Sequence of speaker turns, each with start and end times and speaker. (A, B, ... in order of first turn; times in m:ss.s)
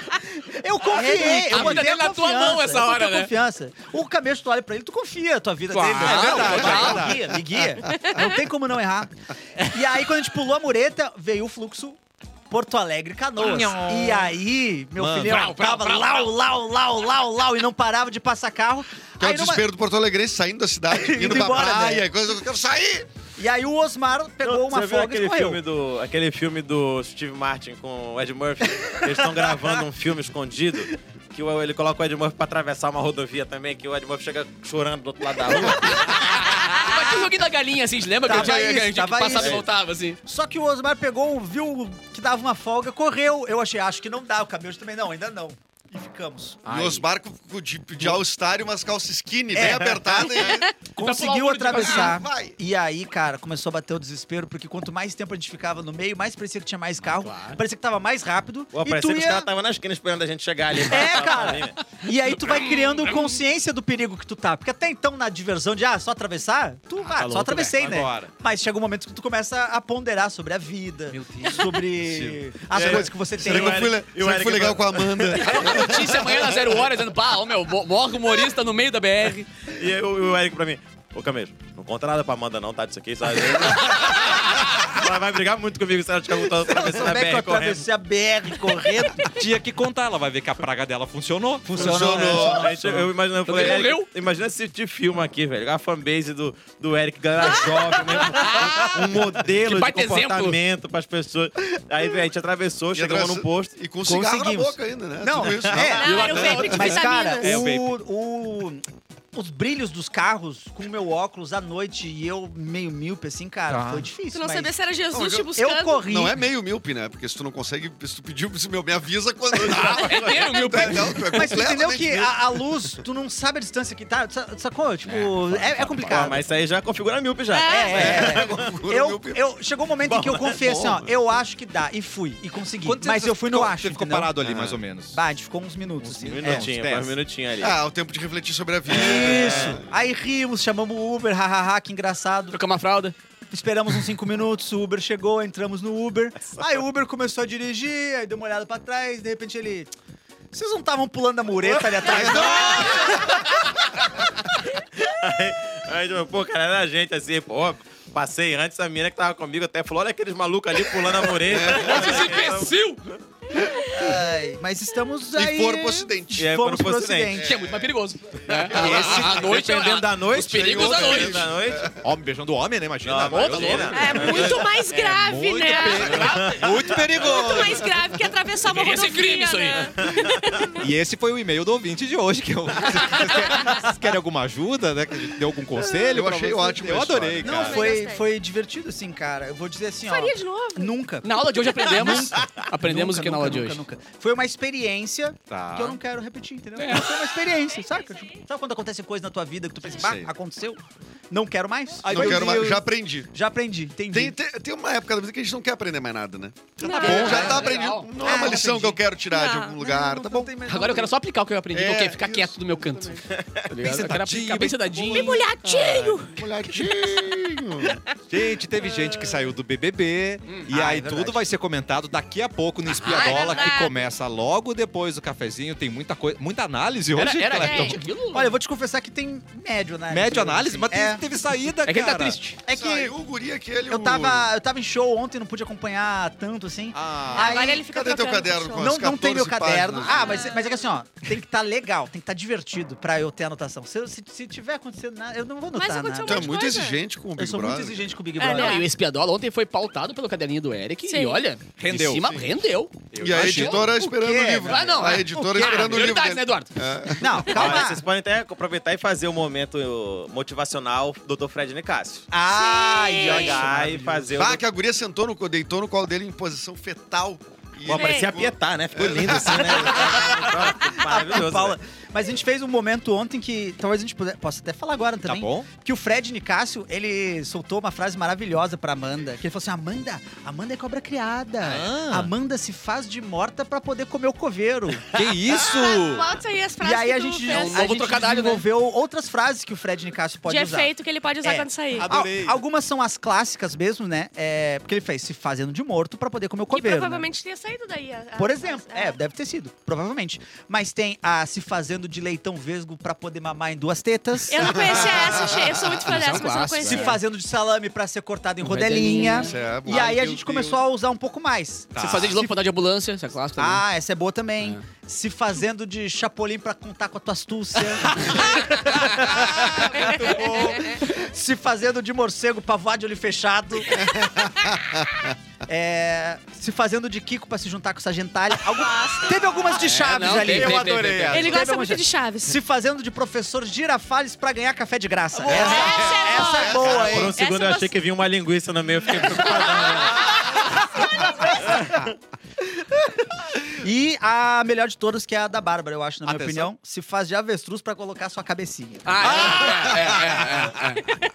0:00.4-0:19.6 A
0:00.9-0:03.3 B
0:05.7-0:07.4 B
0:05.9-0:07.3 C
0:08.0-0:08.3 D
0:13.4-0:14.3 C
0:15.0-0:15.4 C
0:15.2-0:16.3 B
0:19.2-0:23.1 E
0:20.9-0:22.1 A
0:23.4-0:25.6 A
0:24.4-0:36.4 F
0:29.0-0:29.7 A
0:35.8-0:40.2 B
0:38.2-0:39.6 A
0:39.3-0:39.6 F
0:40.2-0:46.7 A
0:46.7-0:50.7 E
0:46.7-0:47.0 C
0:46.7-0:47.0 B
0:49.5-0:59.5 A
0:49.6-0:50.2 F
0:51.0-0:52.2 B
0:51.7-0:52.6 E
0:57.2-0:57.6 B
0:58.7-1:01.8 F
1:00.8-1:13.9 A
1:02.4-1:03.2 B
1:07.2-1:08.3 C
1:11.1-1:11.8 C
1:12.0-1:16.8 E
1:12.7-1:15.6 F
1:15.4-1:19.5 B
1:19.7-1:27.8 F
1:26.5-1:29.3 A
1:29.4-1:31.7 C
1:31.6-1:33.1 A
1:31.7-1:32.7 E
1:32.4-1:43.7 F
1:33.4-1:34.1 B
1:38.4-1:39.0 B
1:39.6-1:40.6 B
1:42.9-1:46.8 E
1:44.0-1:54.7 A
1:45.4-1:45.8 F
1:45.9-1:47.6 D
1:46.0-1:47.0 B
1:47.4-1:48.0 C
1:53.7-1:54.1 C
1:54.3-1:56.1 D
1:55.1-1:55.5 E
1:55.5-1:56.4 A
1:56.0-2:02.3 E
1:59.5-2:00.4 F
1:59.6-2:01.6 B
2:01.3-2:06.4 A
2:05.0-2:06.4 C
2:06.1-2:08.7 F
2:07.5-2:08.0 D
2:07.6-2:14.4 A
2:07.9-2:09.4 E
2:10.1-2:10.6 F
2:10.6-2:11.1 E
2:12.8-2:15.2 C
2:14.4-2:14.8 E
2:15.1-2:16.7 A
2:16.0-2:17.2 C
2:16.3-2:17.8 F
2:17.6-2:19.8 E
2:18.9-2:22.6 A
2:22.5-2:23.1 B
2:23.5-2:29.9 A
2:30.5-2:33.5 A
2:32.1-2:32.8 E
2:32.2-2:33.1 D
2:35.0-2:43.2 F
2:41.4-2:42.2 E
2:41.8-2:43.0 B
2:42.0-2:42.7 C
2:43.9-2:47.6 A
2:45.3-2:46.5 E
2:46.4-2:47.4 F
2:47.3-2:47.8 E
2:47.4-2:51.5 B
2:48.5-2:49.6 E
2:48.7-2:51.9 F
2:49.0-2:49.4 C
2:50.3-2:52.0 E
2:52.0-2:57.9 C
2:53.0-2:54.8 F
2:53.3-2:54.4 B
2:53.9-2:56.2 D
2:55.9-2:56.6 B
2:56.0-2:56.9 F
2:56.9-3:00.8 D
2:58.7-2:59.9 B
3:00.8-3:07.9 C
3:05.8-3:07.6 E
3:07.4-3:24.4 A
3:07.5-3:08.3 D
3:10.0-3:10.9 D
3:11.2-3:13.8 B
3:15.5-3:16.0 C
3:16.8-3:17.3 B
3:17.8-3:18.4 D
3:19.9-3:20.3 E
3:22.1-3:23.3 E
3:22.1-3:22.4 C
3:24.1-3:30.5 E
3:26.8-3:27.7 D
3:26.8-3:27.5 A
3:27.0-3:28.1 B
3:27.2-3:27.5 C
3:28.1-3:29.0 A
3:28.2-3:28.6 D
3:29.3-3:30.1 D
3:29.8-3:31.1 A
3:30.6-3:35.5 B
3:31.7-3:33.2 E
3:33.3-3:33.7 F
3:33.8-3:35.4 C
3:35.1-3:36.9 D
3:35.6-3:38.0 E
3:38.3-3:48.0 C
3:38.8-3:39.5 D
3:40.7-3:41.4 A
3:42.8-3:43.7 B
3:43.1-3:44.1 D
3:47.2-3:48.5 B
3:47.5-3:48.0 D
3:48.3-3:51.2 A
3:50.1-3:52.6 C
3:51.8-3:52.6 B
3:52.6-3:53.1 A
3:52.7-3:54.5 E
3:53.9-3:57.8 A
3:56.9-3:57.6 C
3:57.3-3:58.9 D
3:57.6-4:00.5 E
3:58.8-4:06.6 A
4:00.0-4:00.8 D
4:05.7-4:07.0 D
4:06.2-4:08.2 E
4:07.3-4:08.8 A
4:08.4-4:08.9 D
4:08.5-4:13.1 B
4:11.0-4:11.4 D
4:11.8-4:12.3 C
4:13.1-4:13.9 C
4:13.2-4:17.9 E
4:13.3-4:16.1 A
4:14.6-4:16.7 B
4:17.2-4:18.0 A
4:17.5-4:22.3 F
4:22.3-4:24.3 A
4:22.5-4:23.6 D
4:23.2-4:24.6 F
4:24.3-4:30.5 E
4:27.8-4:31.8 F
4:27.9-4:28.3 D
4:30.3-4:45.1 A
4:35.3-4:35.7 C
4:41.6-4:42.3 C
4:45.1-4:46.3 C
4:45.5-4:47.8 D
4:46.8-4:50.9 A
4:47.4-4:48.6 B
4:50.4-4:52.1 D
4:51.4-4:57.2 A
4:52.0-4:52.6 C
4:56.7-4:59.2 D
4:58.4-5:05.1 A
5:04.5-5:07.2 D
5:04.6-5:06.1 E
5:06.0-5:07.2 B
5:06.8-5:12.5 A
5:08.6-5:09.5 B
5:09.4-5:10.7 E
5:09.9-5:10.4 C
5:11.9-5:12.4 C
5:12.0-5:13.8 B
5:13.6-5:24.0 A
5:19.5-5:20.9 C
5:23.9-5:25.3 E
5:25.6-5:37.4 A
5:28.7-5:29.8 D
5:29.8-5:31.5 B
5:30.0-5:31.6 C
5:31.3-5:32.6 D
5:35.3-5:36.0 B
5:35.5-5:37.9 D
5:36.6-5:37.2 E
5:36.8-5:40.4 F
5:41.6-5:42.0 A
5:41.6-5:42.0 F
5:42.8-5:43.1 A
5:43.6-5:49.6 A
5:46.2-5:46.7 C
5:49.0-5:51.0 B
5:49.2-5:51.0 C